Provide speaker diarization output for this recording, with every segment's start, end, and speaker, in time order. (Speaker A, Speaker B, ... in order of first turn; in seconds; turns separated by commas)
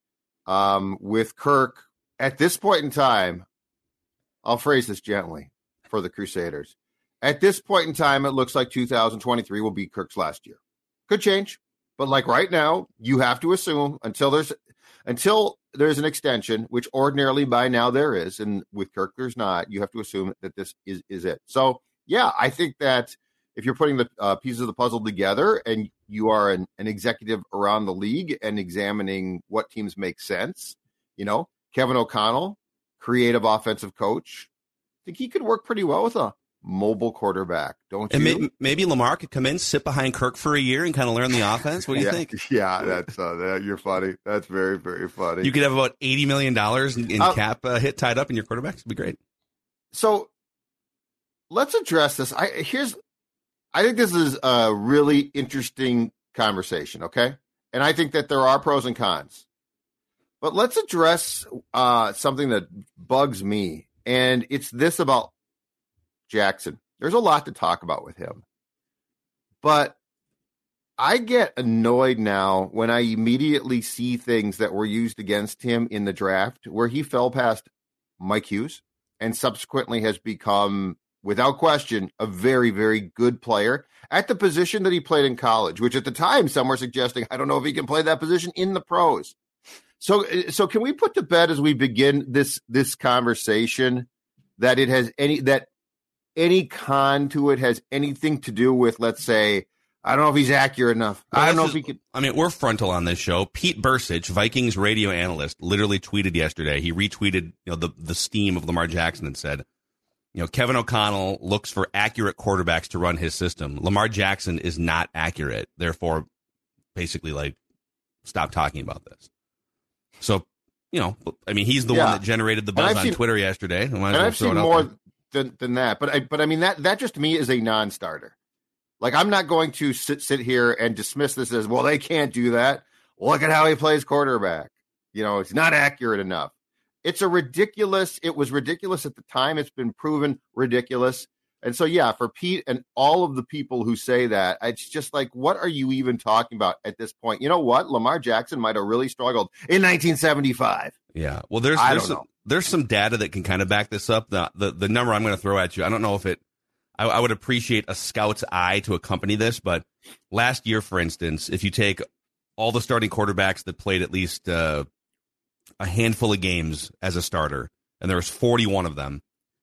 Speaker A: 0.5-3.5, Speaker A: 4.4-34.5, Speaker A: 35.0-38.5, Speaker B: 38.1-42.4, Speaker A: 42.0-45.5, Speaker B: 45.4-49.2, Speaker A: 49.9-50.3, Speaker A: 51.5-53.0, Speaker A: 53.7-59.5, Speaker A: 60.4-65.3, Speaker A: 66.3-68.4, Speaker A: 69.6-70.0, Speaker A: 71.0-77.7, Speaker A: 78.2-89.3, Speaker A: 90.0-95.7, Speaker A: 96.4-102.0, Speaker B: 101.3-109.7, Speaker B: 110.3-116.3, Speaker B: 117.0-117.6, Speaker B: 118.2-119.3, Speaker B: 120.2-124.9, Speaker A: 121.9-122.2, Speaker A: 122.8-123.2, Speaker A: 124.1-128.3, Speaker A: 129.0-136.5, Speaker A: 137.0-150.9, Speaker B: 151.1-156.4, Speaker A: 151.8-152.2, Speaker B: 157.0-162.1, Speaker B: 162.6-164.9, Speaker B: 165.8-169.2